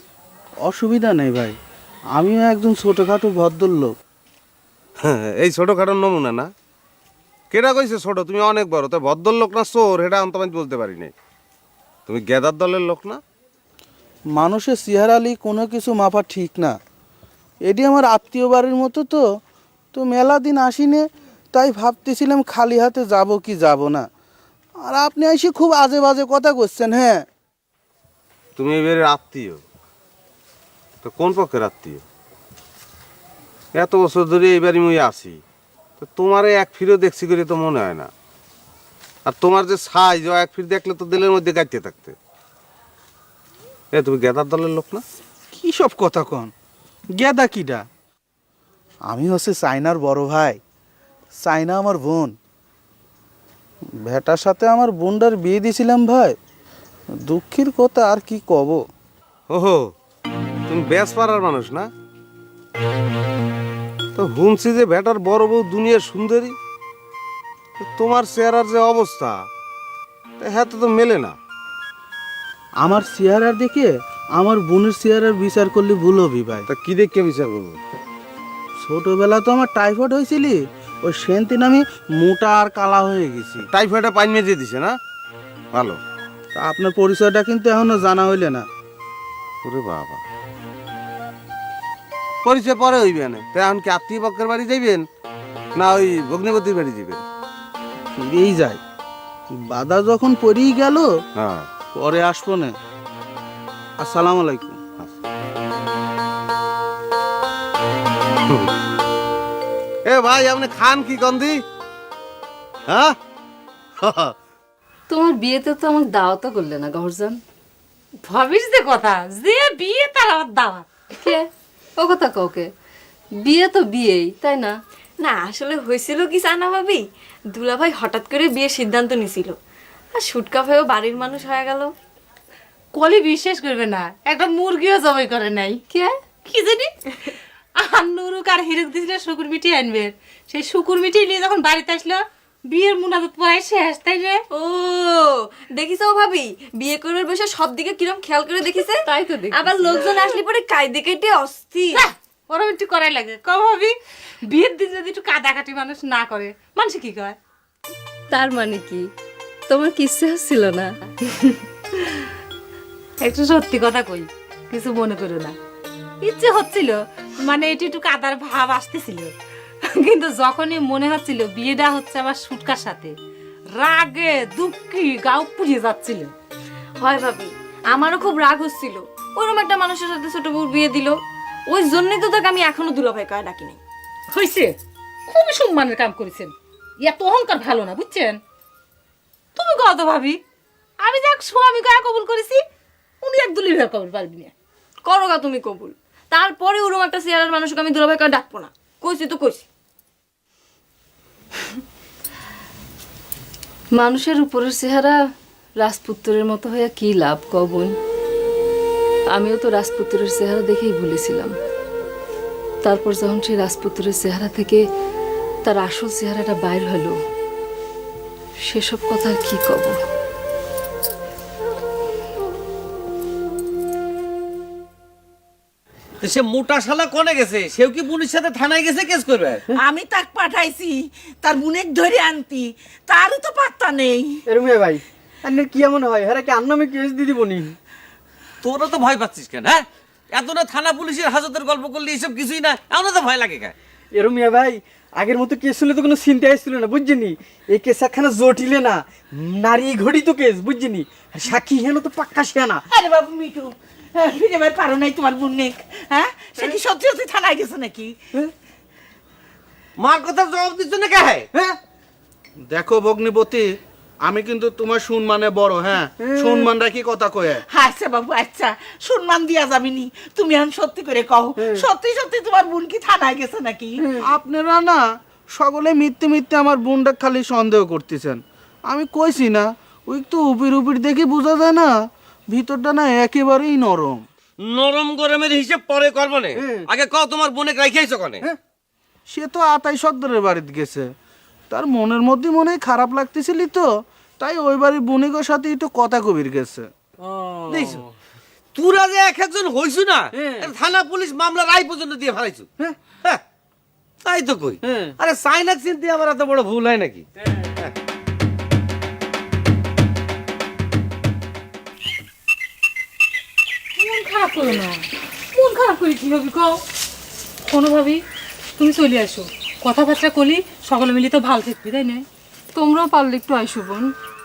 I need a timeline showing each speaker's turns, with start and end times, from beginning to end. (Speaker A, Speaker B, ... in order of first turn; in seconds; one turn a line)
Speaker A: 0.6-1.6
Speaker A: 2.2-3.9
Speaker B: 5.0-6.5
Speaker B: 7.5-11.1
Speaker B: 12.1-13.2
Speaker A: 14.3-16.8
Speaker A: 17.7-19.2
Speaker A: 19.9-24.1
Speaker A: 24.8-27.2
Speaker B: 28.6-29.6
Speaker B: 31.0-32.0
Speaker B: 33.8-35.4
Speaker B: 36.0-38.1
Speaker B: 39.3-42.2
Speaker B: 43.9-45.0
Speaker A: 45.5-46.5
Speaker A: 47.1-47.9
Speaker A: 49.1-50.6
Speaker A: 51.4-52.3
Speaker A: 54.0-56.4
Speaker A: 57.3-58.8
Speaker B: 59.5-59.9
Speaker B: 60.7-61.9
Speaker B: 64.2-66.6
Speaker B: 67.8-69.5
Speaker B: 70.4-71.4
Speaker A: 72.8-76.7
Speaker B: 76.7-77.8
Speaker A: 78.8-83.7
Speaker B: 83.7-85.0
Speaker B: 85.7-86.0
Speaker A: 86.5-88.7
Speaker B: 89.6-90.2
Speaker B: 92.4-95.1
Speaker B: 95.8-97.2
Speaker A: 98.2-98.8
Speaker A: 99.7-101.1
Speaker B: 101.4-101.7
Speaker A: 101.9-102.7
Speaker A: 104.0-104.8
Speaker B: 110.1-111.6
Speaker B: 112.9-113.2
Speaker B: 114.0-114.3
Speaker C: 115.1-117.4
Speaker D: 118.3-120.9
Speaker C: 121.2-121.5
Speaker C: 122.0-122.7
Speaker C: 123.4-124.7
Speaker E: 125.2-129.6
Speaker E: 130.1-131.9
Speaker D: 132.9-135.8
Speaker D: 136.5-136.9
Speaker D: 137.8-144.4
Speaker E: 144.5-152.0
Speaker C: 149.0-149.9
Speaker D: 151.9-153.9
Speaker D: 154.5-157.4
Speaker C: 158.3-159.1
Speaker C: 159.7-160.9
Speaker D: 163.2-165.6
Speaker D: 166.2-169.3
Speaker D: 169.8-173.1
Speaker D: 173.8-176.3
Speaker E: 177.0-183.8
Speaker D: 184.3-184.8
Speaker D: 185.3-188.4
Speaker D: 189.6-190.4
Speaker D: 191.0-192.6
Speaker D: 193.2-194.5
Speaker E: 195.1-199.6
Speaker C: 204.0-205.2
Speaker C: 205.8-207.9
Speaker C: 209.3-211.5
Speaker C: 212.8-214.8
Speaker C: 215.7-217.2
Speaker C: 218.7-220.0
Speaker F: 226.2-229.6
Speaker G: 229.8-234.3
Speaker H: 234.5-237.8
Speaker F: 238.6-239.8
Speaker F: 240.3-243.7
Speaker H: 244.1-252.8
Speaker G: 252.9-258.1
Speaker B: 260.0-261.4
Speaker A: 262.7-263.7
Speaker A: 264.2-267.6
Speaker H: 266.2-266.7
Speaker G: 267.7-274.0
Speaker H: 271.6-271.9
Speaker H: 274.0-274.3
Speaker A: 274.2-275.0
Speaker A: 275.6-281.9
Speaker A: 282.5-284.2
Speaker F: 284.6-286.1
Speaker B: 284.8-286.5
Speaker H: 286.6-286.9
Speaker F: 286.9-288.2
Speaker B: 287.0-288.3
Speaker A: 289.3-291.1
Speaker A: 291.7-296.9
Speaker H: 297.2-298.0
Speaker F: 298.8-302.6
Speaker H: 300.3-300.7
Speaker B: 300.7-301.6
Speaker F: 304.2-304.8
Speaker H: 304.8-305.1
Speaker B: 305.3-306.2
Speaker F: 305.9-307.2
Speaker D: 314.0-316.8
Speaker D: 317.6-318.2
Speaker D: 318.8-322.2
Speaker C: 322.8-324.1